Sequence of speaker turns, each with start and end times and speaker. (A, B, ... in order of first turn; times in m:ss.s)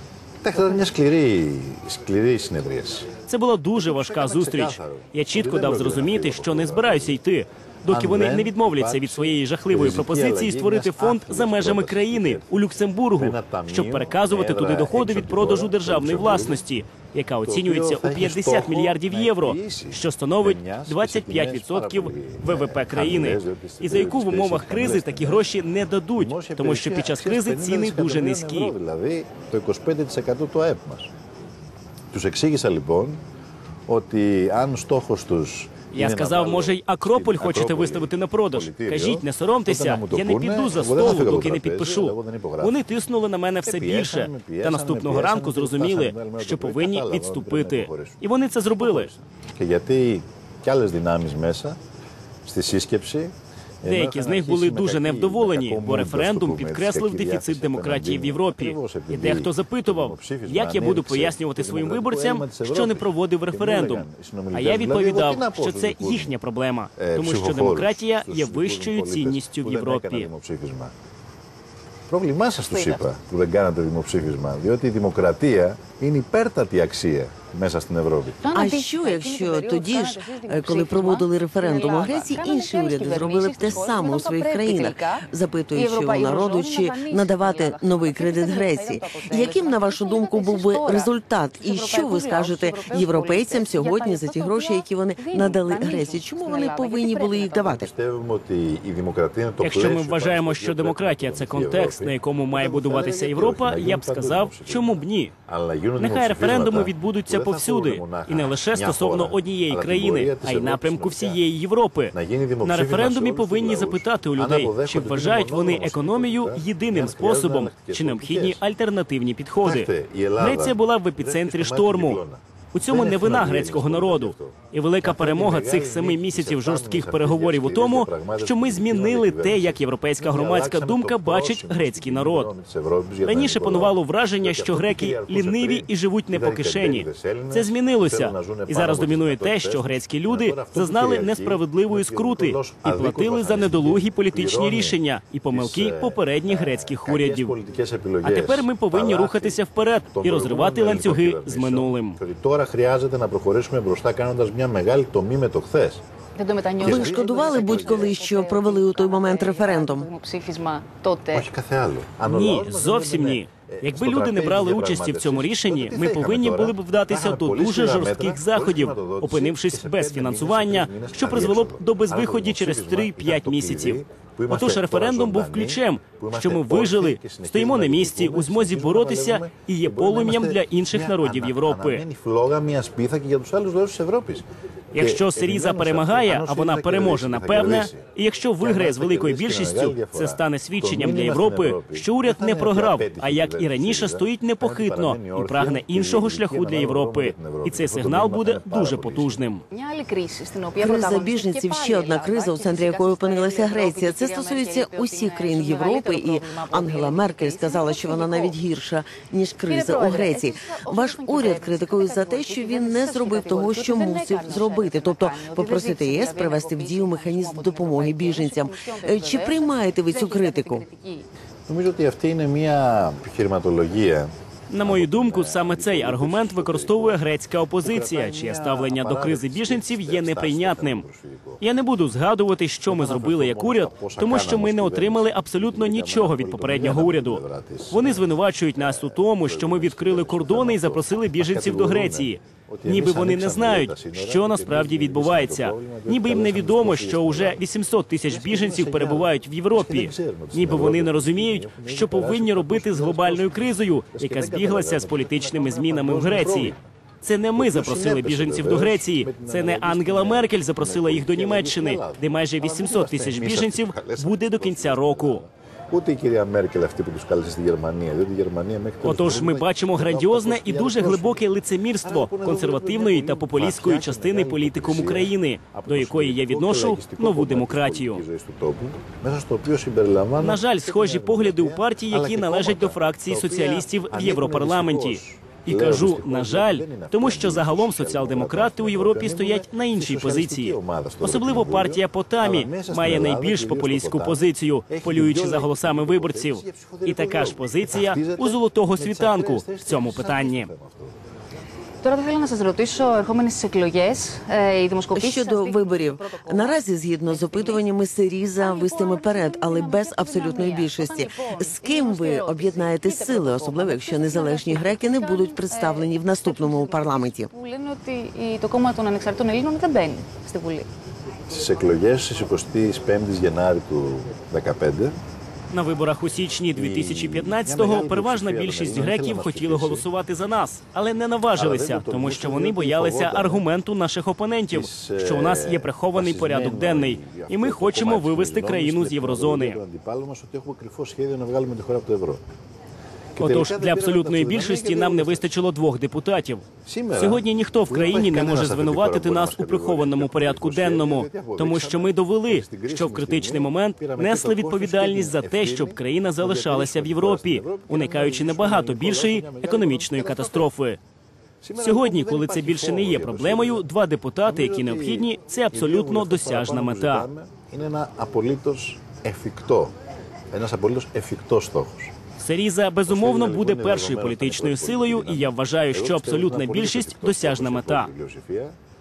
0:00.4-0:03.1 A
0:03.3-0:28.7 B
0:03.7-0:07.2 A
0:07.9-0:12.5 A
0:13.1-0:16.6 A
0:17.4-0:25.5 A
0:26.2-0:31.1 A
0:32.1-0:33.2 A
0:33.9-0:42.8 A
0:35.9-0:49.1 B
0:43.6-0:48.2 A
0:48.8-0:51.8 A
0:52.4-1:06.4 A
0:53.8-1:10.3 B
1:07.0-1:10.9 A
1:12.1-1:18.4 A
1:12.6-1:13.0 C
1:18.4-1:37.8 C
1:18.5-1:37.9 D
1:37.8-1:51.4 A
1:39.6-1:45.3 B
1:46.0-2:02.2 B
1:52.1-1:58.6 A
1:59.6-2:25.0 A
2:02.7-2:12.5 B
2:13.2-2:27.6 B
2:25.5-2:36.0 A
2:28.2-2:32.2 B
2:36.4-2:41.5 C
2:36.8-2:38.2 A
2:36.8-2:40.1 D
2:41.3-3:08.1 A
2:42.2-3:02.0 B
3:04.9-3:19.6 B
3:08.6-3:19.4 A
3:19.7-3:28.6 C
3:20.8-3:40.8 D
3:29.7-3:41.3 C
3:41.7-3:47.2 A
3:44.7-3:51.0 B
3:47.8-3:51.6 A
3:51.6-4:25.4 B
3:52.9-4:07.6 A
4:08.3-4:16.9 A
4:17.6-4:31.4 A
4:29.0-4:38.2 B
4:32.0-5:01.1 A
4:40.4-5:00.7 B
5:02.0-5:07.9 C
5:05.1-5:17.5 D
5:08.6-5:20.9 C
5:21.5-5:25.2 A
5:25.7-5:39.8 B
5:26.7-5:30.1 A
5:31.5-5:33.6 A
5:34.7-5:42.4 A
5:43.4-5:45.5 A
5:43.4-5:46.6 B
5:46.8-6:00.7 A
5:47.2-6:01.0 B
6:01.6-6:03.8 A
6:01.8-6:07.3 B
6:04.4-6:09.9 A
6:10.5-6:12.1 A
6:12.4-6:18.1 B
6:13.1-6:18.8 A